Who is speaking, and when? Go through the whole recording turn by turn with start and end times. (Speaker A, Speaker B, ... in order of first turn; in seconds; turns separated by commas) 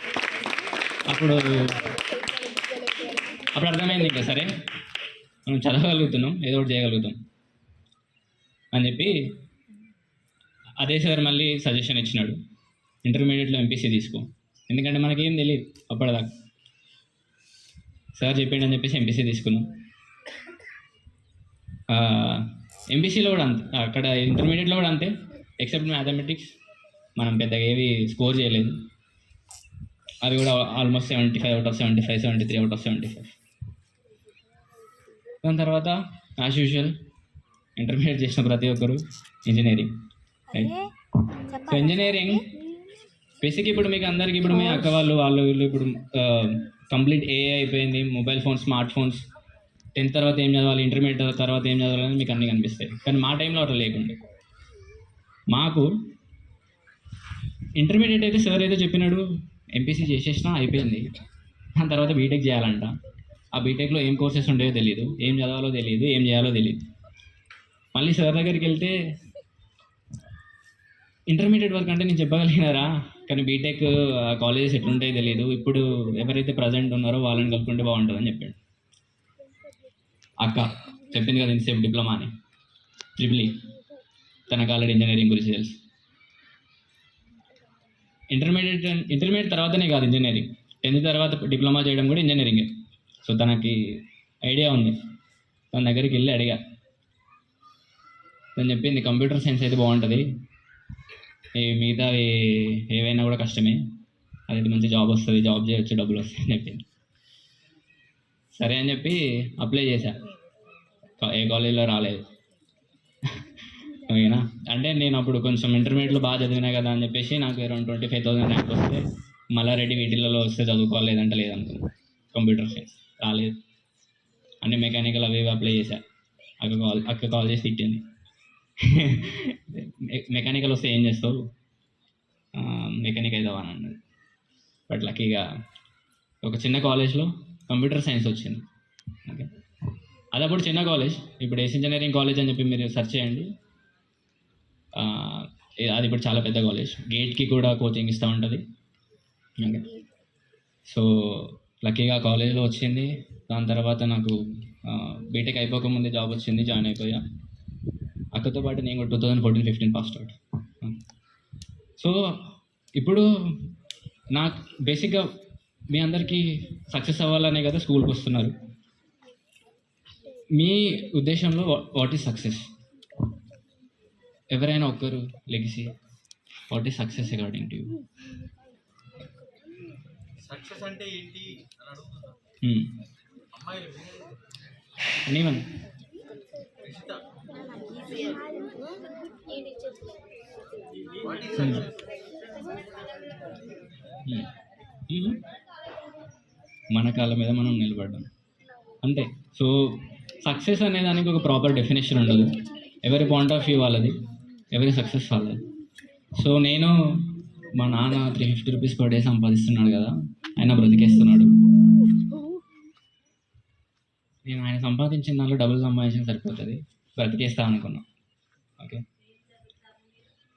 Speaker A: 1.1-1.8, Speaker B: 2.5-3.1, Speaker A: 3.5-4.5, Speaker A: 5.5-7.2, Speaker A: 8.7-9.3, Speaker A: 10.8-12.4, Speaker A: 13.1-16.3, Speaker A: 18.2-19.7, Speaker A: 21.9-26.5, Speaker A: 27.2-28.8, Speaker A: 30.2-33.4, Speaker A: 35.4-37.0, Speaker A: 37.8-39.9, Speaker A: 40.5-40.9, Speaker A: 41.5-42.5, Speaker A: 43.4-49.2, Speaker A: 50.0-54.2, Speaker A: 55.5-56.0, Speaker A: 57.8-59.2, Speaker A: 59.8-61.1, Speaker A: 61.8-62.9, Speaker A: 63.5-66.8, Speaker A: 68.0-69.0, Speaker A: 71.3-78.6, Speaker A: 80.4-82.3, Speaker A: 83.2-83.6, Speaker A: 84.5-85.8, Speaker A: 88.3-92.7, Speaker A: 93.2-95.0, Speaker A: 95.7-96.6, Speaker A: 98.6-100.3, Speaker A: 101.6-103.8, Speaker A: 104.5-106.8, Speaker A: 108.6-110.2, Speaker A: 111.2-112.3, Speaker A: 113.4-119.0, Speaker A: 119.5-123.6, Speaker A: 124.6-126.0, Speaker A: 126.6-128.0, Speaker A: 128.8-131.4, Speaker A: 132.6-134.0, Speaker A: 134.9-135.5, Speaker A: 136.4-138.7, Speaker A: 139.2-139.5, Speaker A: 140.3-143.5, Speaker A: 145.0-148.6, Speaker A: 149.6-149.9, Speaker A: 150.9-157.2, Speaker A: 158.3-161.0, Speaker A: 163.0-163.3, Speaker A: 164.4-165.3, Speaker A: 165.9-168.6, Speaker A: 170.5-172.7, Speaker A: 174.5-175.9, Speaker A: 176.7-178.0, Speaker B: 180.5-182.2, Speaker A: 182.6-182.9, Speaker B: 183.6-184.3, Speaker A: 185.1-185.7, Speaker B: 186.8-187.2, Speaker B: 188.0-188.5, Speaker B: 191.2-191.5, Speaker A: 191.5-191.9, Speaker A: 195.1-195.4, Speaker A: 196.9-198.3, Speaker A: 199.0-204.2, Speaker A: 204.7-205.7, Speaker A: 206.4-207.0, Speaker A: 207.8-211.6, Speaker A: 214.4-218.1, Speaker A: 218.8-219.0